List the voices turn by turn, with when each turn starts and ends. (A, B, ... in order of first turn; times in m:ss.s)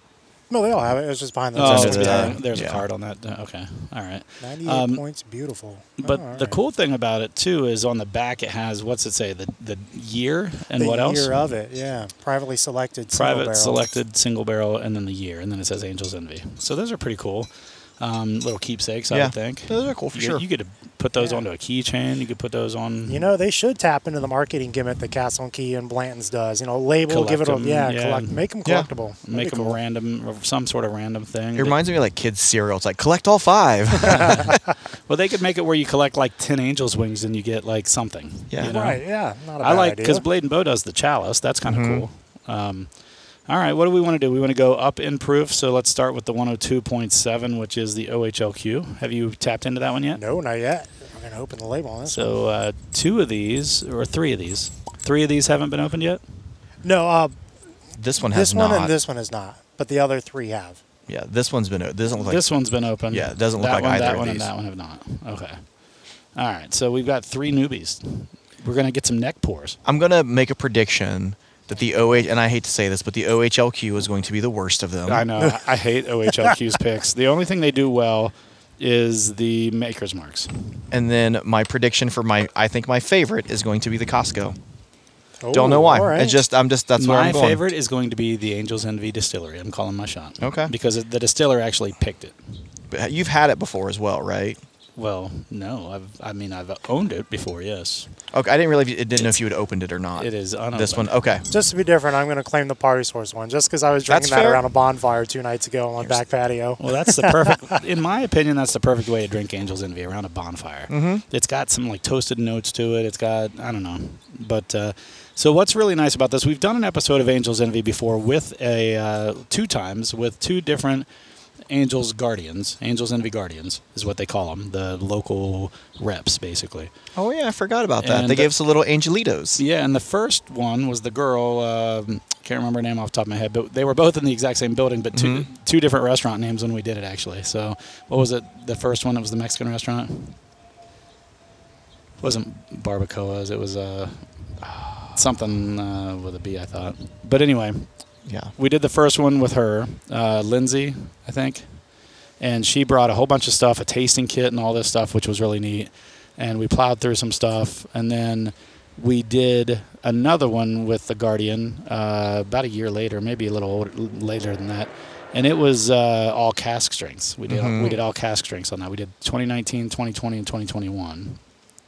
0:00.5-0:02.4 A
0:01.5-0:05.0 B
0:01.6-0:02.8 C
0:04.4-0:06.6 A
0:06.0-0:11.3 B
0:10.8-0:13.8 A
0:13.1-0:23.2 B
0:19.1-0:20.4 C
0:21.2-0:21.4 A
0:23.1-0:29.8 A
0:27.1-0:28.4 B
0:29.2-0:31.8 B
0:31.6-0:34.6 C
0:34.0-0:34.5 A
0:34.1-0:34.5 B
0:35.1-0:39.0 B
0:38.6-0:40.2 A
0:39.6-0:42.9 B
0:41.6-0:42.0 C
0:43.5-0:50.2 B
0:50.2-0:52.3 A
0:52.1-0:56.2 B
0:56.8-0:57.3 A
0:58.0-0:58.9 C
0:58.3-1:00.8 A
1:01.1-1:02.4 C
1:02.2-1:05.6 B
1:03.1-1:04.5 C
1:06.4-1:09.8 B
1:09.8-1:15.2 C
1:15.1-1:20.5 B
1:20.9-1:24.6 C
1:25.4-1:26.4 A
1:25.5-1:27.6 C
1:27.0-1:32.4 B
1:30.4-1:30.7 C
1:32.9-1:34.6 C
1:35.0-1:38.1 B
1:38.3-1:41.4 C
1:40.2-1:41.1 B
1:41.5-1:47.8 A
1:44.1-1:44.6 C
1:46.8-2:01.1 B
1:50.9-1:51.2 C
2:01.7-2:06.9 B
2:07.2-2:09.6 C
2:08.0-2:08.5 B
2:09.6-2:20.4 B
2:15.1-2:15.4 C
2:22.2-2:27.9 B
2:28.2-2:28.5 C
2:28.6-2:31.7 B
2:32.4-2:51.4 B
2:47.5-2:48.0 C